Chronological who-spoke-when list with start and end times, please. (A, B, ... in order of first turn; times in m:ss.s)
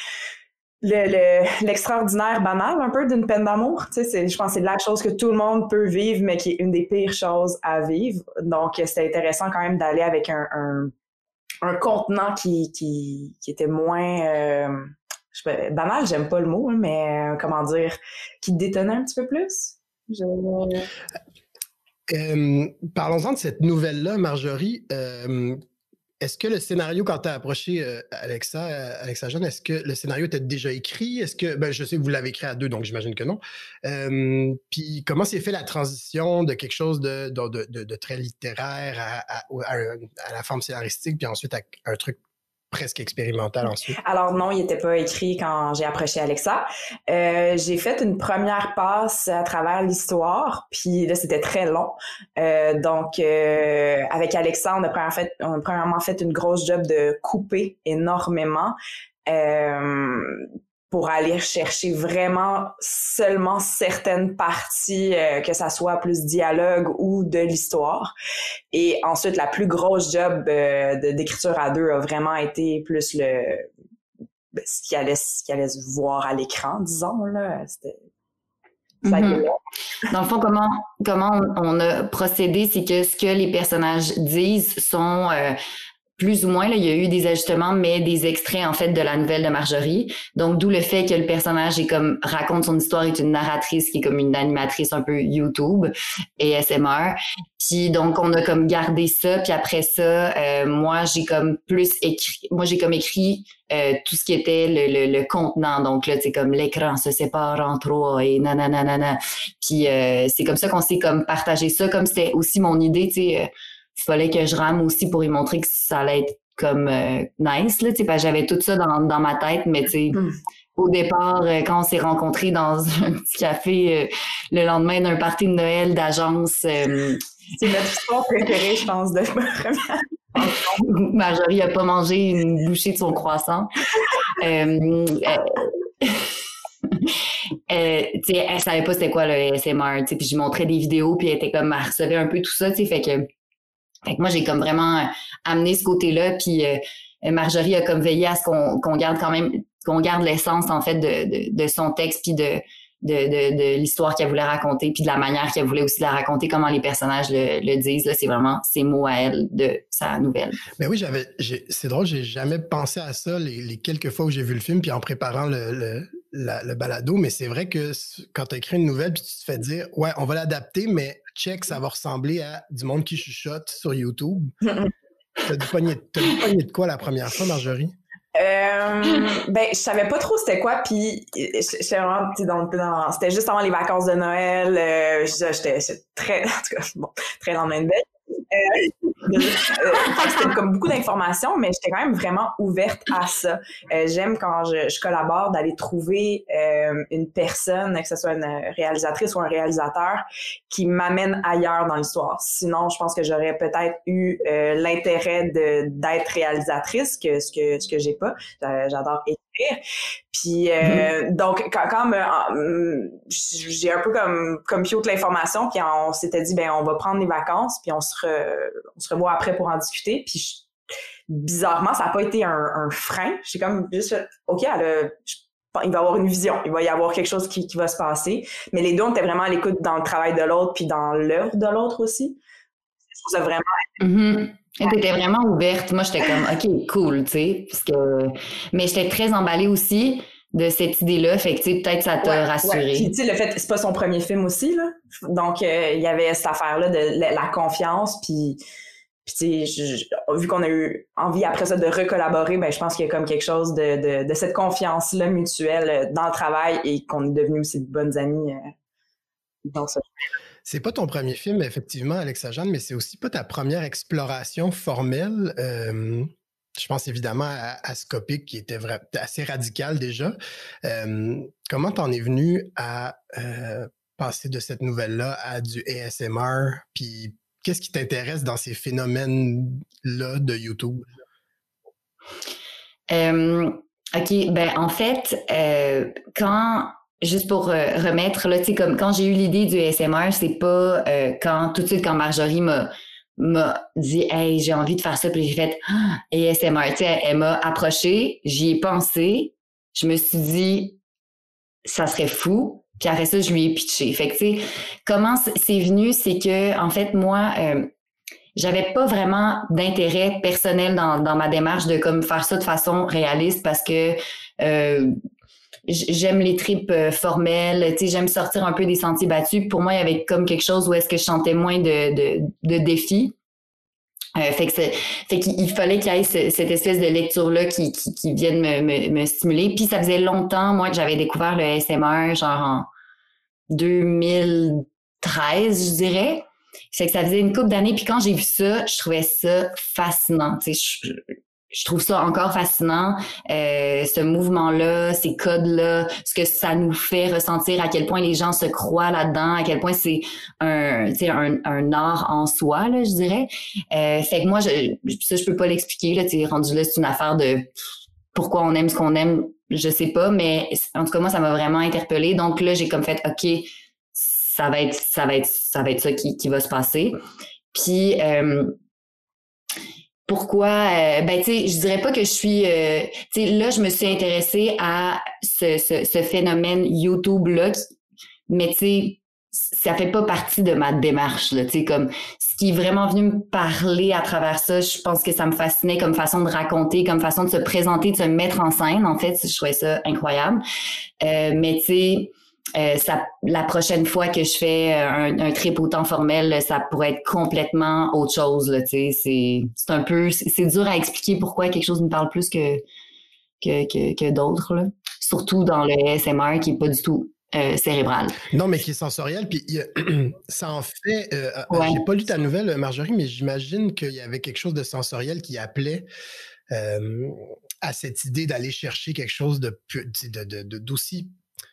0:00.8-0:10.9 A
0:11.6-0:20.9 A
0:22.1-0:25.6 B
0:26.2-0:42.2 B
0:42.7-0:44.0 B
0:43.9-0:58.8 A
0:59.3-1:08.1 A
1:08.7-1:13.7 A
1:14.6-1:18.0 A
1:19.0-1:19.4 C
1:19.1-1:19.6 A
1:20.1-1:25.6 C
1:26.2-2:00.2 C
2:00.8-2:07.2 C
2:07.6-2:10.8 A
2:10.7-2:13.7 C
2:14.4-2:16.3 C
2:17.7-2:23.3 C
2:24.1-2:40.6 C
2:40.8-2:54.5 B
2:55.4-2:57.9 B
2:58.4-3:29.8 A
3:30.3-3:40.6 A
3:30.8-3:31.1 C
3:41.3-3:52.4 A
3:53.2-3:53.8 A
3:54.0-4:03.1 C
4:02.2-4:08.6 A
4:09.3-4:18.6 A
4:19.7-4:20.0 A
4:20.6-4:41.1 B
4:43.1-5:01.0 C
5:01.8-5:07.9 C
5:08.6-5:15.1 C
5:15.9-5:23.3 C
5:24.4-5:32.9 C
5:33.7-5:57.7 C
5:58.3-6:07.1 C
6:07.7-6:08.7 C
6:10.3-6:17.8 C
6:18.5-6:30.6 C
6:31.2-6:42.8 C
6:43.6-6:48.4 C
6:48.5-6:56.1 B
6:51.7-6:52.0 C
6:56.7-7:01.3 B